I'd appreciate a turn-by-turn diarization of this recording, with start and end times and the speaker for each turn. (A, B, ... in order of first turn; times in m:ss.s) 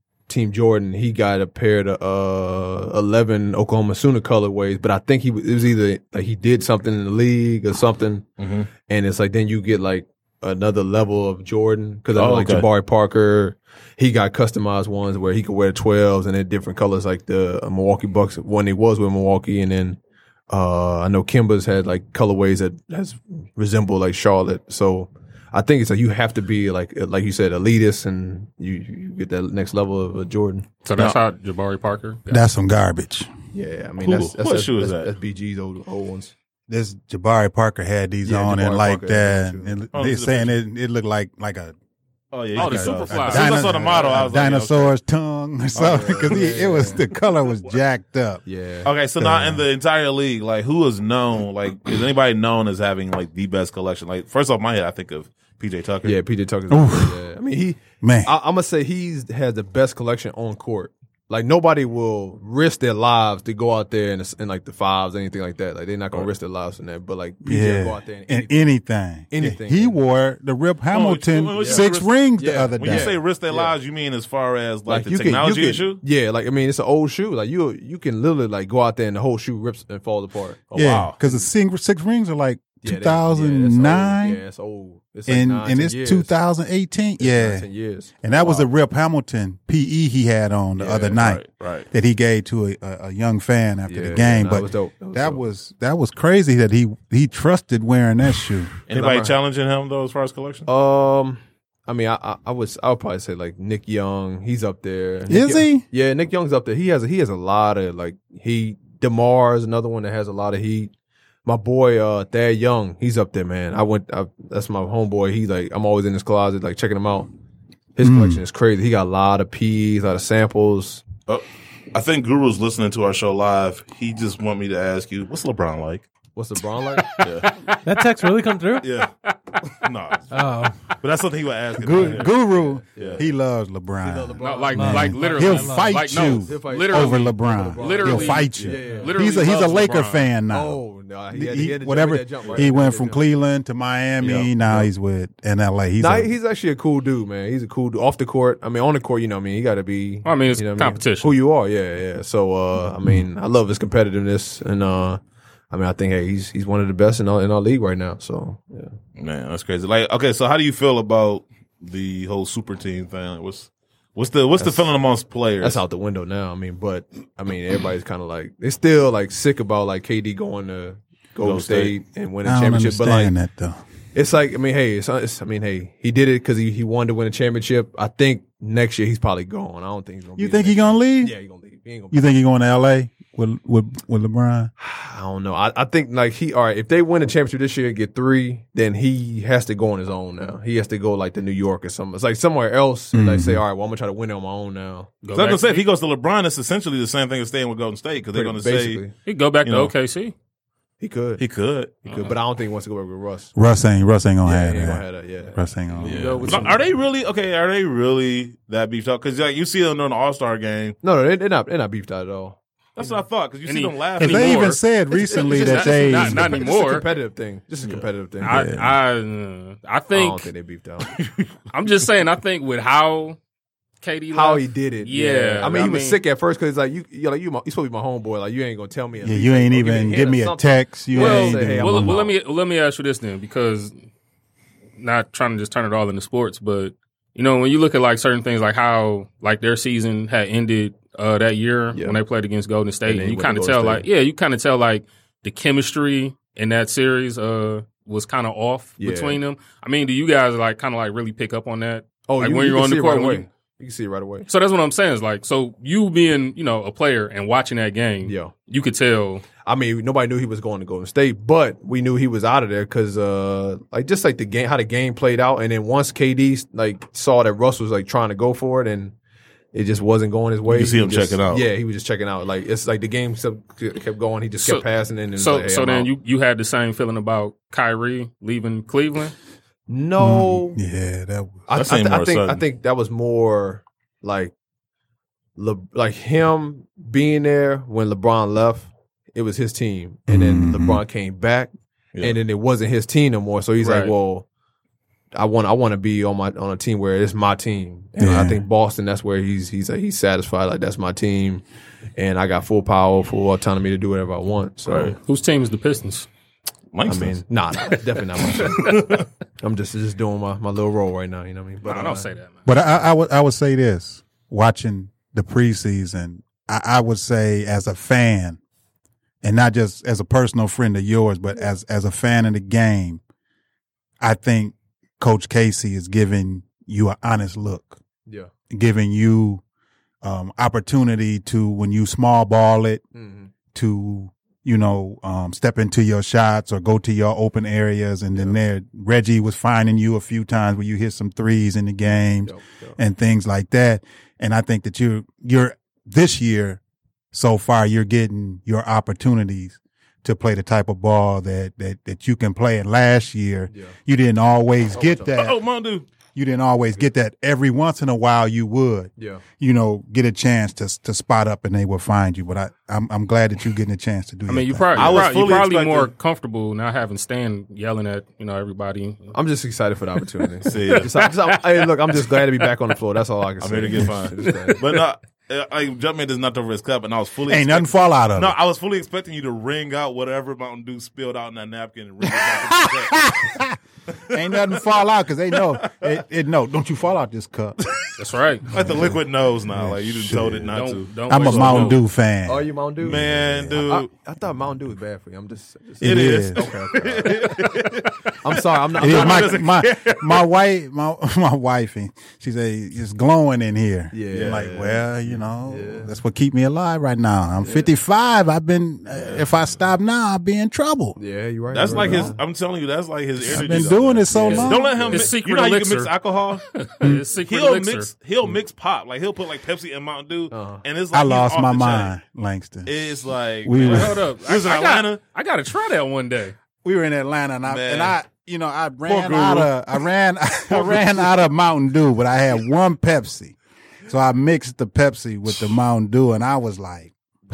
0:00.3-0:20.0 A
0:08.4-0:08.7 B
0:12.1-0:12.7 B
0:20.5-0:30.7 A
0:30.8-0:32.4 C
0:32.3-0:33.3 D
0:33.5-0:36.3 A
0:34.0-0:35.1 B
0:36.7-0:41.8 D
0:38.2-0:39.8 A
0:39.9-0:40.5 B
0:42.3-0:45.0 B
0:42.6-0:44.2 C
0:42.6-0:48.4 D
0:45.8-0:46.6 B
0:45.8-0:47.0 A
0:48.4-0:48.9 A
0:48.8-0:56.2 B
0:49.2-0:49.6 D
0:56.0-1:08.7 A
0:56.7-0:57.2 D
0:58.0-0:58.3 D
1:07.4-1:13.1 D
1:09.3-1:10.0 A
1:10.9-1:16.0 B
1:11.6-1:13.8 A
1:14.9-1:21.5 A
1:20.8-1:24.4 D
1:20.8-1:21.2 B
1:22.8-1:26.3 A
1:25.3-1:27.7 D
1:27.2-1:28.7 A
1:28.2-1:38.7 D
1:30.8-1:31.9 B
1:33.9-1:35.4 A
1:38.9-1:40.7 B
1:38.9-1:39.4 A
1:40.7-1:50.9 A
1:45.3-1:45.8 D
1:51.4-1:57.3 A
1:58.0-2:01.0 A
1:58.0-1:58.4 D
2:01.3-2:06.1 B
2:06.4-2:07.3 A
2:07.2-2:07.5 B
2:07.8-2:08.9 E
2:08.8-2:09.1 B
2:09.7-2:10.3 B
2:10.3-2:10.8 E
2:11.0-2:12.4 B
2:11.8-2:26.3 D
2:12.0-2:13.3 A
2:13.0-2:13.2 B
2:14.0-2:15.6 A
2:14.4-2:20.3 C
2:14.7-2:16.0 E
2:16.3-2:19.2 A
2:20.5-2:23.2 A
2:24.2-2:24.9 A
2:26.0-2:35.2 A
2:30.2-2:31.3 C
2:35.7-2:38.9 A
2:39.2-2:45.8 B
2:44.6-2:44.9 A
2:45.6-2:53.3 A
2:51.4-2:52.0 B
2:52.4-2:53.8 D
2:54.1-3:02.2 A
3:00.4-3:01.3 D
3:02.1-3:04.7 D
3:04.8-3:15.2 A
3:13.1-3:13.6 D
3:15.2-3:15.9 C
3:15.3-3:19.0 B
3:18.3-3:19.1 A
3:19.2-3:20.3 C
3:19.6-3:19.9 B
3:21.0-3:21.4 A
3:21.4-3:22.1 B
3:22.0-3:23.5 A
3:22.1-3:22.4 C
3:23.6-3:26.7 D
3:24.4-3:26.8 A
3:26.0-3:26.8 C
3:26.4-3:31.0 B
3:31.0-3:32.6 A
3:33.0-3:34.8 B
3:33.6-3:37.1 C
3:34.2-3:36.6 D
3:35.2-3:38.8 A
3:38.4-3:40.5 C
3:40.1-3:41.1 A
3:41.0-3:41.5 B
3:41.7-3:43.4 C
3:44.0-3:46.2 C
3:44.3-3:52.3 A
3:49.2-3:52.2 D
3:51.2-3:53.9 C
3:55.0-4:13.5 C
4:03.1-4:04.1 A
4:09.0-4:09.4 A
4:12.3-4:14.5 A
4:14.5-4:19.4 C
4:18.2-4:18.5 A
4:19.6-4:29.2 A
4:29.7-4:36.1 A
4:30.7-4:31.7 B
4:34.6-4:39.4 C
4:39.9-4:40.8 A
4:40.2-4:41.7 D
4:41.7-4:44.5 A
4:41.7-4:42.6 B
4:45.6-4:54.5 A
4:50.3-4:51.0 D
4:52.1-4:52.4 B
4:53.8-4:54.1 C
4:55.3-5:01.6 A
4:58.2-4:58.6 D
5:02.2-5:05.2 A
5:04.9-5:05.2 B
5:05.2-5:06.3 C
5:06.9-5:07.4 B
5:07.1-5:12.3 A
5:08.7-5:09.3 B
5:11.8-5:12.8 C
5:12.7-5:18.6 D
5:19.4-5:23.2 D
5:24.2-5:28.0 D
5:28.3-5:28.5 A
5:28.7-5:29.6 D
5:30.2-5:33.0 D
5:33.1-5:33.5 A
5:33.7-5:46.8 D
5:42.4-5:43.0 A
5:47.3-5:55.6 D
5:55.0-5:55.3 A
5:55.3-5:56.1 B
5:56.3-6:05.3 D
5:59.2-5:59.4 A
6:04.5-6:09.3 C
6:05.0-6:06.1 B
6:09.3-6:14.8 A
6:10.6-6:11.1 B
6:10.7-6:12.7 C
6:13.6-6:23.4 B
6:14.4-6:14.8 C
6:17.5-6:18.6 D
6:22.2-6:23.8 D
6:24.1-6:24.8 B
6:24.3-6:27.8 D
6:25.6-6:26.2 B
6:27.8-6:28.1 B
6:28.2-6:28.7 C
6:28.7-6:32.0 B
6:28.7-6:30.7 D
6:30.7-6:32.0 C
6:31.3-6:33.8 D
6:32.5-6:37.7 A
6:33.0-6:34.1 B
6:36.0-6:36.7 D
6:36.0-6:40.4 B
6:38.4-6:39.6 A
6:39.0-6:51.2 D
6:44.1-6:46.2 A
6:44.3-6:44.7 B
6:47.6-6:47.9 A
6:51.2-6:52.4 A
6:51.7-6:56.6 B
6:51.9-6:52.4 D
6:53.4-6:55.0 D
6:54.3-6:55.3 A
6:54.5-6:56.1 C
6:56.7-6:58.1 C
6:57.4-7:02.2 B
7:00.5-7:00.8 A
7:01.1-7:04.2 D
7:02.9-7:05.2 B
7:03.8-7:06.6 C
7:06.8-7:17.1 D
7:07.7-7:08.2 B
7:09.1-7:09.7 B
7:10.7-7:11.2 B